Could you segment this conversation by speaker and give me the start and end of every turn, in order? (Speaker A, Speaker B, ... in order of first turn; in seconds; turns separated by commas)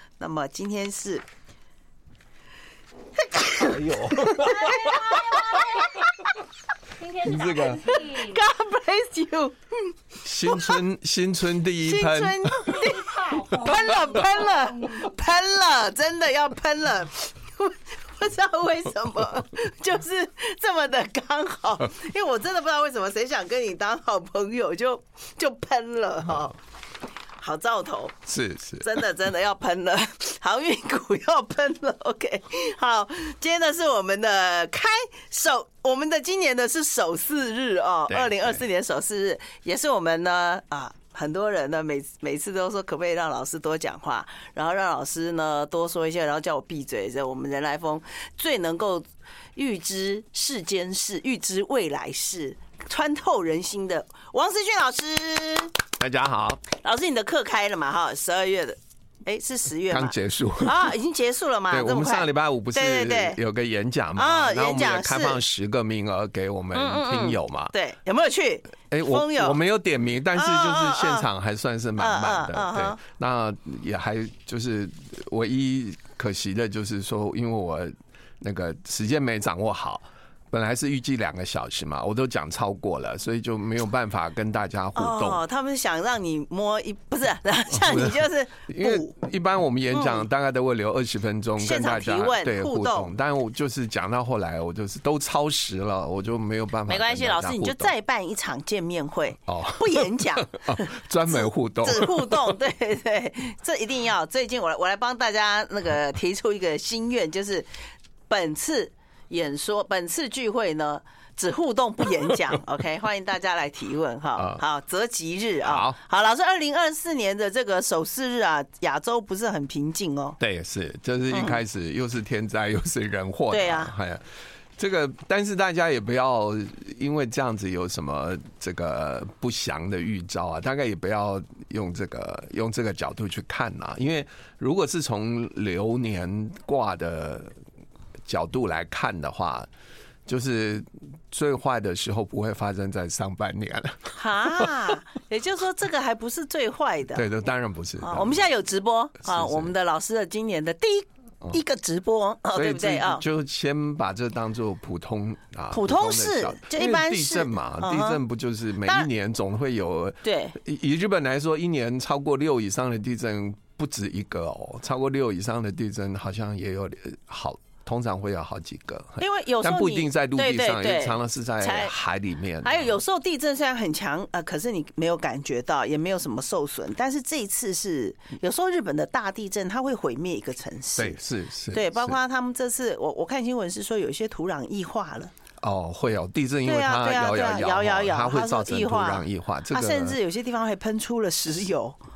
Speaker A: 0.2-1.2, Speaker A: 3.3-6.0, Speaker B: 3.5-5.2, Speaker C: 5.2-5.7, Speaker C: 7.0-8.4, Speaker B: 7.2-7.9, Speaker A: 7.7-9.9, Speaker B: 10.2-12.8, Speaker A: 10.5-10.8, Speaker A: 11.8-26.6, Speaker C: 13.0-15.0, Speaker A: 27.4-28.2, Speaker B: 28.3-29.0, Speaker A: 28.8-55.7, Speaker B: 38.1-38.6, Speaker B: 56.0-56.6, Speaker A: 56.7-63.4, Speaker B: 59.9-60.9, Speaker B: 61.7-67.7, Speaker A: 64.2-65.4, Speaker A: 66.7-69.6, Speaker B: 68.9-85.4, Speaker A: 70.3-71.3, Speaker A: 72.0-73.0, Speaker A: 85.0-89.1, Speaker B: 87.7-97.9, Speaker A: 89.9-90.2, Speaker A: 91.6-93.1, Speaker A: 96.9-100.9, Speaker B: 99.5-102.6, Speaker A: 101.8-107.7, Speaker A: 108.3-120.4, Speaker B: 114.4-114.6, Speaker B: 115.6-116.0, Speaker B: 120.4-124.2, Speaker A: 121.3-121.6, Speaker A: 123.5-123.9, Speaker B: 124.8-137.5, Speaker B: 138.3-139.7, Speaker B: 140.2-144.8, Speaker A: 144.2-147.2, Speaker B: 147.1-148.4, Speaker A: 148.0-153.2, Speaker B: 149.2-149.7, Speaker B: 152.5-172.9, Speaker A: 155.7-158.2, Speaker A: 160.2-160.6, Speaker A: 169.2-171.9, Speaker A: 172.6-181.2, Speaker B: 181.0-182.2, Speaker A: 181.7-185.3, Speaker B: 185.6-190.2, Speaker A: 186.7-192.0